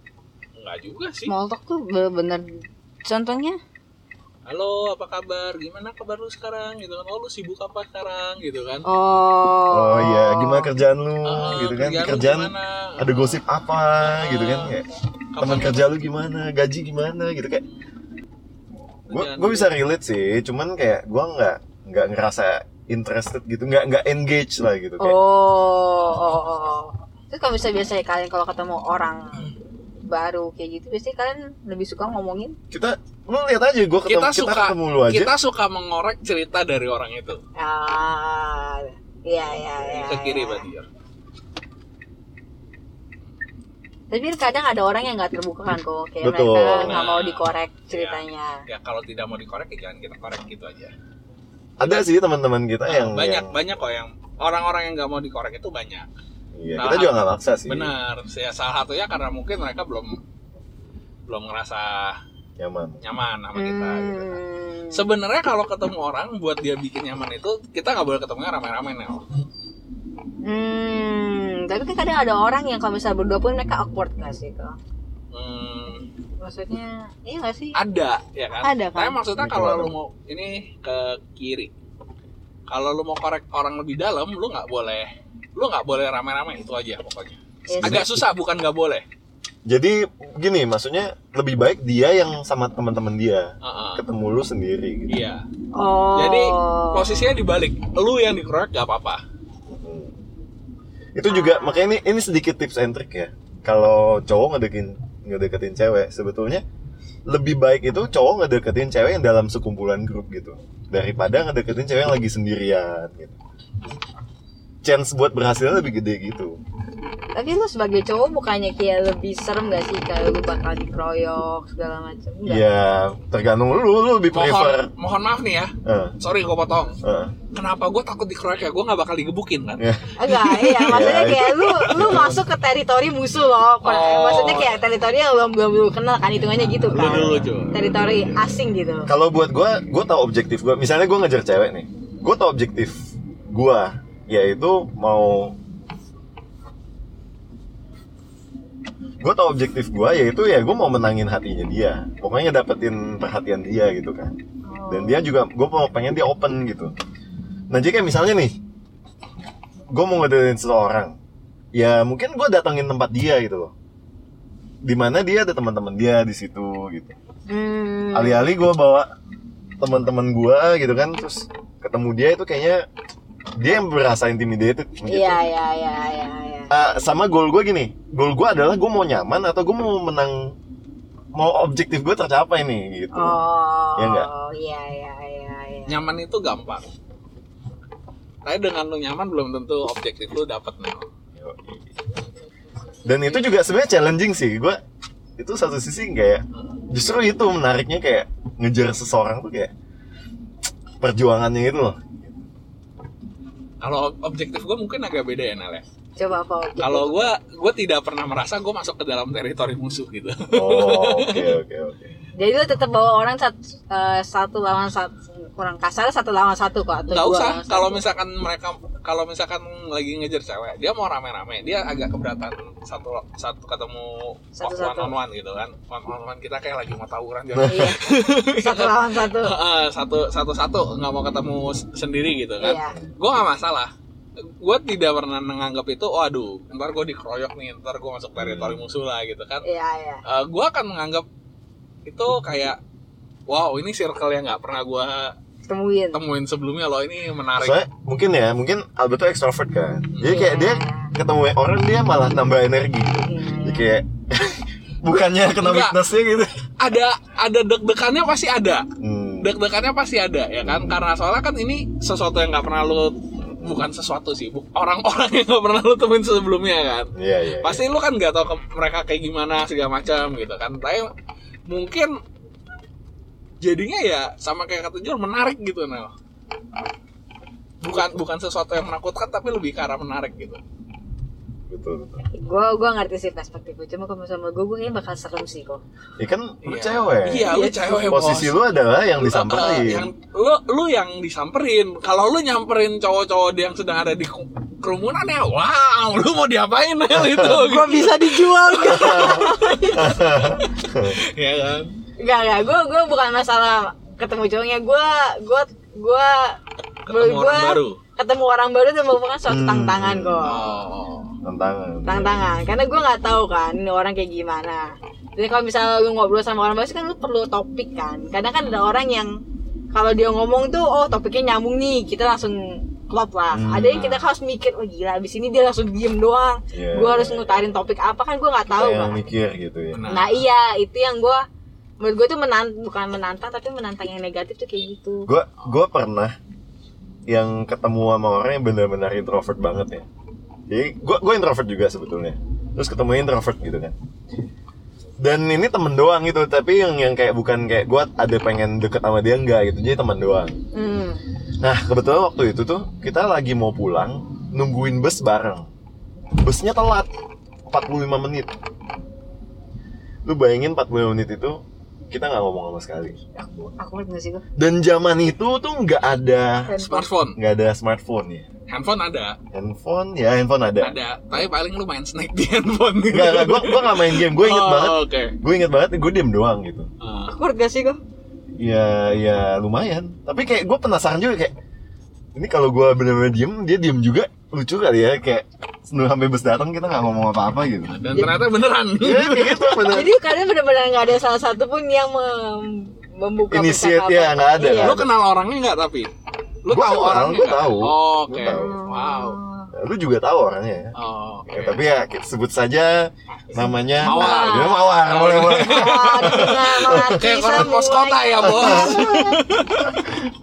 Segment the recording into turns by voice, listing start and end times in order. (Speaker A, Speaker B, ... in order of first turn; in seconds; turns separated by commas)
Speaker A: 0.6-1.3, Speaker B: 1.3-3.6, Speaker A: 4.5-8.8, Speaker B: 8.8-10.7, Speaker C: 9.7-14.9, Speaker A: 11.2-13.4, Speaker A: 14.0-14.8, Speaker A: 15.3-16.0, Speaker C: 15.4-17.6, Speaker A: 19.1-19.7, Speaker C: 19.1-25.2, Speaker B: 25.0-29.5, Speaker B: 30.1-32.5, Speaker C: 32.7-35.3, Speaker A: 34.0-37.4, Speaker B: 37.6-40.6, Speaker A: 39.8-40.9, Speaker B: 44.1-48.6, Speaker C: 46.2-47.1, Speaker A: 46.7-50.9, Speaker C: 51.8-53.5, Speaker A: 52.9-56.1, Speaker C: 56.5-57.9, Speaker A: 56.8-60.2, Speaker A: 61.3-62.2, Speaker C: 62.6-63.0, Speaker A: 63.0-64.4, Speaker B: 63.5-65.1, Speaker A: 64.9-69.2, Speaker B: 70.4-74.8, Speaker A: 75.3-76.0, Speaker B: 76.4-77.8, Speaker A: 77.7-81.7, Speaker B: 78.6-79.2, Speaker C: 79.4-79.9, Speaker A: 82.7-89.0, Speaker B: 87.7-88.1, Speaker C: 87.8-88.2, Speaker C: 89.7-95.2, Speaker A: 93.6-94.0, Speaker A: 95.1-95.4, Speaker B: 95.7-97.4, Speaker A: 96.1-99.2, Speaker C: 99.7-100.2, Speaker C: 101.1-106.6, Speaker B: 101.2-101.9, Speaker C: 107.3-113.3, Speaker C: 114.8-116.6, Speaker B: 117.3-122.6, Speaker C: 122.4-124.9, Speaker A: 124.3-127.0, Speaker C: 125.8-126.2, Speaker C: 127.0-127.3, Speaker A: 127.5-130.9, Speaker C: 129.8-132.4, Speaker B: 130.2-139.1, Speaker A: 131.6-132.0, Speaker A: 133.8-134.8, Speaker A: 136.9-138.0, Speaker C: 136.9-138.0, Speaker C: 139.1-145.6, Speaker C: 149.2-154.3, Speaker B: 154.7-155.3, Speaker C: 154.9-156.9, Speaker C: 157.7-158.6, Speaker C: 159.9-161.2, Speaker C: 161.7-163.7, Speaker C: 164.8-167.2, Speaker B: 167.5-168.4, Speaker C: 168.1-169.1, Speaker C: 169.8-172.8, Speaker C: 173.6-175.5, Speaker B: 175.1-176.7, Speaker C: 176.7-180.5, Speaker C: 181.3-183.4, Speaker B: 183.1-186.1, Speaker C: 184.0-184.3, Speaker A: 185.9-186.9, Speaker A: 188.4-191.1, Speaker C: 191.4-191.9, Speaker C: 193.0-194.8, Speaker C: 195.4-199.7, Speaker C: 201.0-202.4, Speaker A: 203.8-205.8, Speaker B: 206.2-207.3, Speaker A: 206.8-211.6, Speaker C: 210.5-212.2, Speaker B: 212.3-218.1, Speaker A: 217.1-233.9, Speaker B: 224.6-225.1, Speaker C: 227.5-228.0, Speaker B: 227.6-229.5, Speaker B: 232.6-233.0, Speaker A: 234.6-239.6, Speaker C: 238.4-238.9, Speaker B: 239.6-240.2, Speaker A: 240.3-241.2, Speaker A: 242.1-242.8, Speaker A: 243.5-245.3, Speaker B: 245.7-246.2, Speaker A: 246.1-247.8, Speaker C: 247.6-256.6, Speaker A: 250.1-250.4, Speaker B: 250.2-251.1, Speaker B: 253.2-253.9, Speaker A: 255.6-256.0, Speaker A: 256.8-258.9, Speaker C: 259.0-259.5, Speaker A: 259.4-271.1, Speaker C: 260.6-261.0, Speaker C: 263.4-263.8, Speaker C: 267.1-267.8, Speaker A: 271.7-272.1, Speaker A: 273.6-276.1, Speaker A: 277.8-280.6, Speaker C: 281.7-282.2, Speaker B: 282.3-285.8, Speaker C: 286.2-290.1, Speaker A: 286.6-299.1, Speaker B: 287.4-288.2, Speaker C: 297.1-297.6, Speaker B: 297.4-300.4, Speaker C: 298.7-301.2, Speaker A: 301.1-301.9, Speaker B: 302.2-306.6, Speaker A: 307.1-308.0, Speaker B: 307.1-310.7, Speaker C: 309.4-310.6, Speaker A: 310.4-311.3, Speaker C: 311.4-312.5, Speaker B: 312.0-319.3, Speaker B: 319.9-329.2, Speaker C: 323.5-324.1, Speaker A: 323.7-324.3, Speaker C: 326.7-327.7, Speaker C: 328.7-330.1, Speaker A: 329.9-330.5, Speaker B: 330.1-331.4, Speaker B: 332.0-335.3, Speaker C: 335.3-336.3, Speaker C: 337.3-340.1, Speaker C: 340.7-343.9, Speaker C: 345.2-350.5, Speaker B: 350.7-351.2, Speaker C: 351.6-355.6, Speaker C: 356.4-357.1, Speaker C: 357.7-358.5, Speaker C: 360.2-363.2, Speaker B: 363.3-364.4, Speaker C: 364.6-366.8, Speaker B: 366.6-367.1, Speaker A: 366.8-367.4, Speaker C: 367.3-368.5, Speaker A: 368.7-369.4, Speaker C: 369.5-371.0, Speaker A: 370.8-375.4, Speaker C: 373.1-376.9, Speaker A: 377.0-377.3, Speaker B: 377.3-378.0, Speaker C: 378.6-381.5, Speaker C: 382.3-387.9, Speaker A: 387.9-389.8, Speaker B: 388.1-388.4, Speaker C: 389.0-390.1, Speaker B: 389.8-395.0, Speaker C: 393.5-395.1, Speaker A: 394.7-396.1, Speaker A: 396.6-399.4, Speaker C: 396.7-398.8, Speaker B: 398.4-399.7, Speaker C: 399.7-400.9, Speaker A: 400.9-401.8, Speaker C: 401.5-407.7, Speaker B: 403.5-404.9, Speaker A: 404.0-410.1, Speaker B: 405.5-409.4, Speaker C: 408.4-409.0